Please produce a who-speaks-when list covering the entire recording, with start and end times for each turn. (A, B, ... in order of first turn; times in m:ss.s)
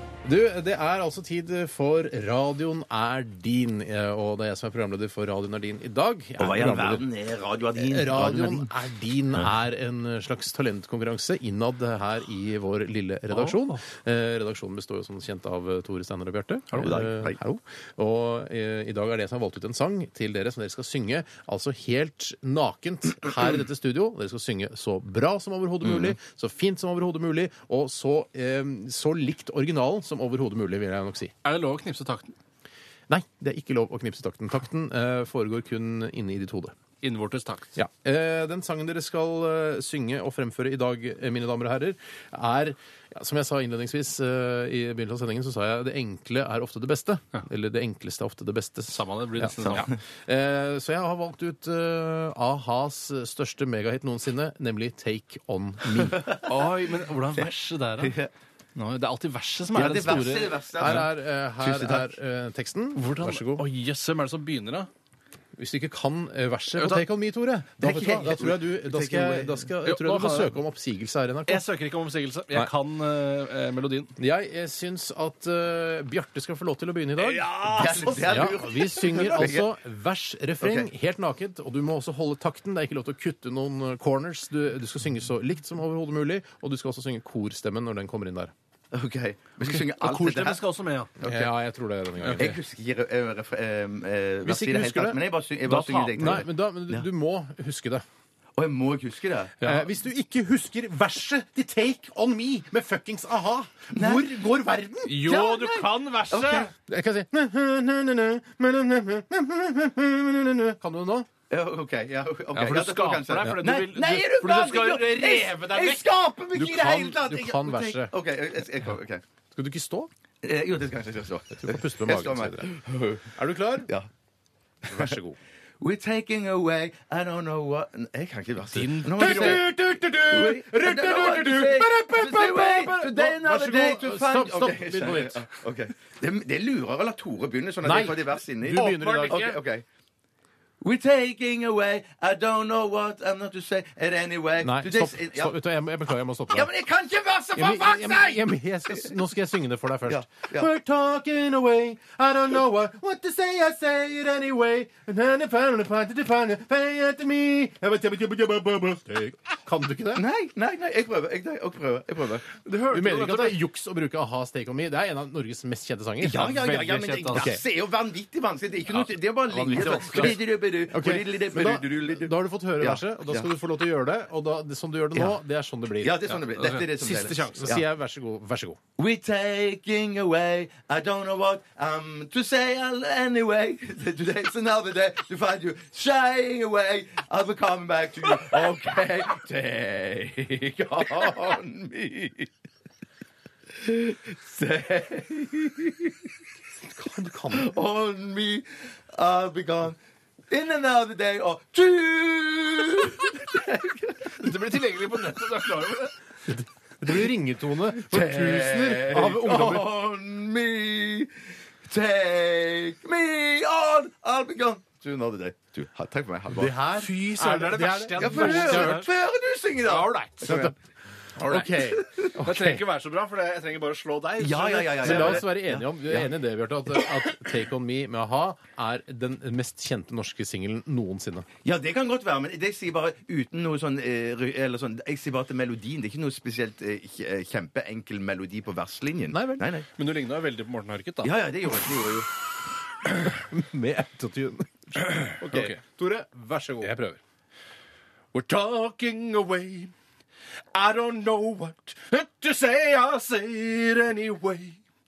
0:00.2-0:07.0 A
0:06.4-0:08.7 B
0:07.8-0:31.3 A
0:13.3-0:13.8 C
0:16.8-0:17.4 B
0:25.8-0:26.2 B
0:31.4-0:32.3 C
0:33.1-0:36.7 A
0:37.0-0:37.7 C
0:37.8-0:56.2 A
0:48.9-0:49.9 C
0:49.6-0:50.0 B
0:56.0-0:56.7 B
0:56.4-0:58.1 C
0:57.4-0:58.3 B
0:58.8-1:01.0 C
0:59.7-1:02.1 B
1:00.8-1:03.6 A
1:03.0-1:04.9 C
1:05.6-1:11.6 A
1:06.8-1:07.0 C
1:07.8-1:09.7 B
1:09.8-1:10.5 C
1:11.5-1:14.1 C
1:14.2-1:28.5 A
1:17.2-1:18.5 C
1:17.5-1:19.7 B
1:20.6-1:20.9 B
1:28.9-1:30.6 B
1:29.6-1:31.1 C
1:31.2-1:31.5 B
1:31.2-1:32.5 A
1:32.2-1:32.6 C
1:32.3-1:37.1 B
1:34.4-1:35.2 A
1:35.6-1:36.4 C
1:36.2-1:38.0 A
1:38.6-1:39.6 B
1:39.6-1:45.2 A
1:43.9-1:44.4 B
1:45.0-1:46.7 C
1:45.2-1:46.7 B
1:46.9-1:51.3 A
1:51.5-1:59.2 B
1:52.5-1:56.0 C
1:56.5-1:58.1 A
1:59.5-2:00.1 A
2:00.4-2:03.3 B
2:01.5-2:02.7 A
2:03.3-2:03.9 A
2:04.9-2:05.4 A
2:05.8-2:19.8 B
2:08.7-2:09.6 C
2:09.1-2:15.5 A
2:17.8-2:19.5 A
2:18.8-2:19.6 C
2:20.8-2:25.5 B
2:24.6-2:26.7 A
2:26.5-2:29.1 B
2:27.6-2:40.2 A
2:30.0-2:30.7 B
2:40.1-2:42.5 B
2:42.6-2:43.6 C
2:42.9-2:46.5 A
2:46.2-2:53.5 B
2:46.3-2:47.5 C
2:47.3-2:47.6 A
2:48.9-2:50.4 C
2:49.8-2:56.3 A
2:55.1-2:55.4 B
2:56.0-2:57.8 B
2:56.3-2:57.8 C
2:57.6-2:58.8 A
2:59.0-3:12.5 B
3:13.7-3:16.2 B
3:17.0-3:17.7 A
3:17.5-3:20.0 B
3:20.5-3:24.5 B
3:24.4-3:26.1 C
3:26.5-3:29.9 A
3:27.9-3:31.3 B
3:31.8-3:36.8 B
3:36.5-3:39.0 A
3:37.0-3:39.1 C
3:38.2-3:40.7 B
3:39.8-3:40.5 C
3:40.4-3:40.7 A
3:41.4-3:42.8 A
3:41.5-3:42.4 B
3:42.4-3:45.5 C
3:44.4-3:46.3 B
3:45.0-3:51.5 A
3:51.6-3:59.9 B
3:59.3-3:59.7 A
4:00.0-4:01.3 C
4:01.2-4:02.3 B
4:03.2-4:06.9 A
4:05.2-4:05.8 C
4:06.8-4:07.2 C
4:08.3-4:09.9 C
4:10.7-4:14.8 C